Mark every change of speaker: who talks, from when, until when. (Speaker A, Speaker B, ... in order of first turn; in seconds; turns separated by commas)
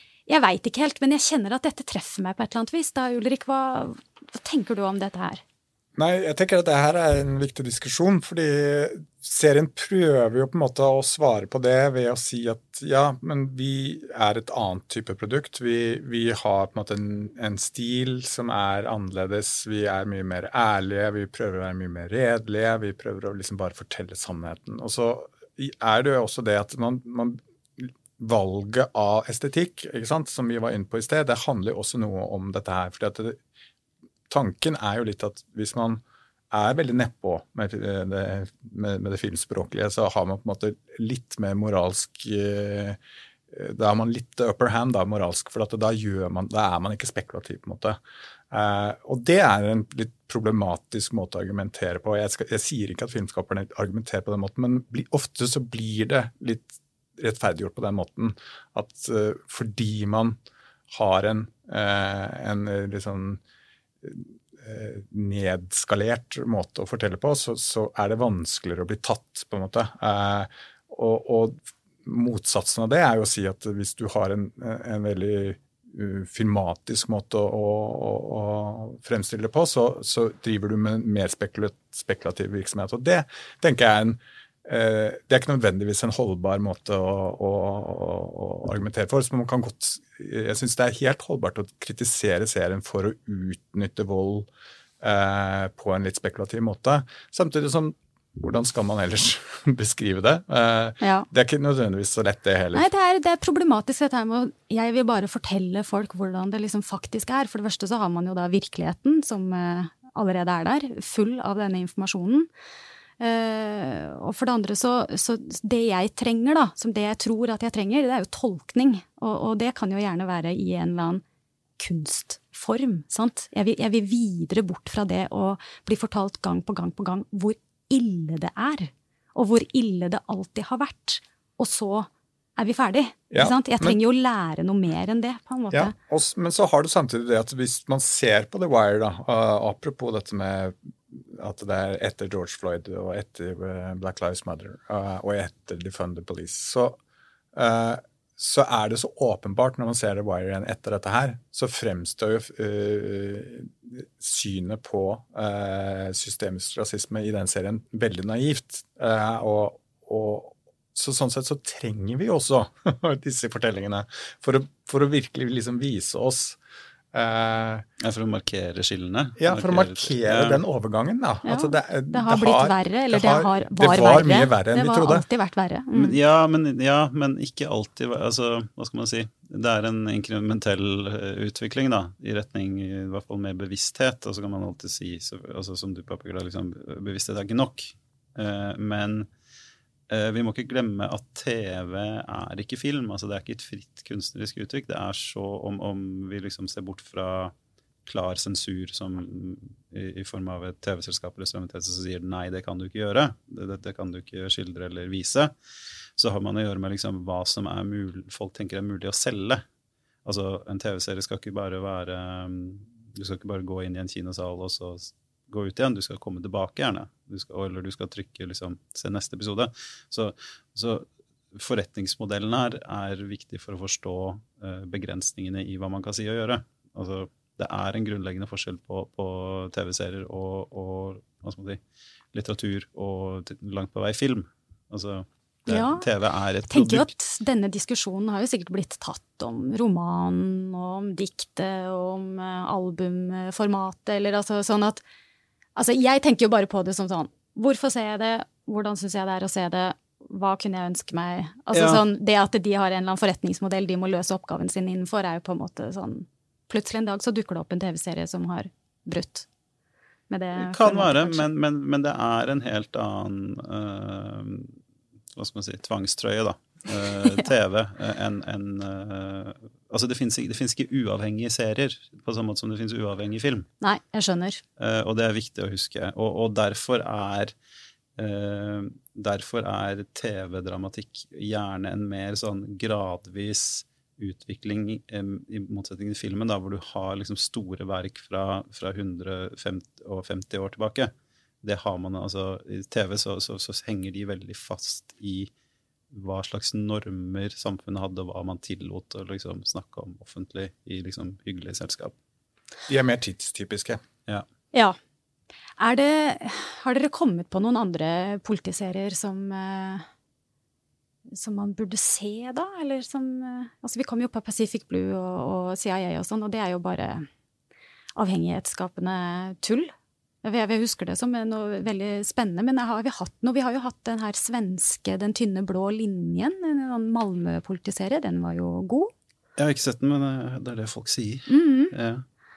Speaker A: 0.3-5.4, Speaker B: 6.0-33.4, Speaker B: 34.3-43.0, Speaker B: 43.5-60.4, Speaker B: 60.9-63.4, Speaker B: 64.0-94.5, Speaker B: 95.0-102.9, Speaker A: 101.0-101.3, Speaker A: 102.7-112.5, Speaker A: 113.2-121.2, Speaker A: 121.8-135.9, Speaker B: 133.3-134.0, Speaker B: 135.7-147.0, Speaker B: 147.5-166.6, Speaker B: 167.1-167.8, Speaker C: 168.0-170.6, Speaker B: 169.4-175.2, Speaker A: 171.4-176.2, Speaker C: 175.9-189.3, Speaker C: 190.1-197.5, Speaker C: 198.1-205.5, Speaker C: 206.2-209.6, Speaker C: 210.2-231.8, Speaker C: 232.3-237.1, Speaker A: 235.7-236.1, Speaker A: 236.7-245.0, Speaker A: 245.7-259.5, Speaker C: 251.7-252.0, Speaker A: 260.3-261.5, Speaker C: 260.6-264.8, Speaker C: 265.3-273.7, Speaker A: 273.8-274.6, Speaker C: 274.8-277.5, Speaker C: 278.2-295.5, Speaker C: 296.1-302.1, Speaker B: 302.9-304.0, Speaker A: 305.8-310.1, Speaker A: 311.3-317.3, Speaker A: 318.1-319.9, Speaker A: 320.4-329.1, Speaker C: 329.6-332.2, Speaker A: 331.5-331.9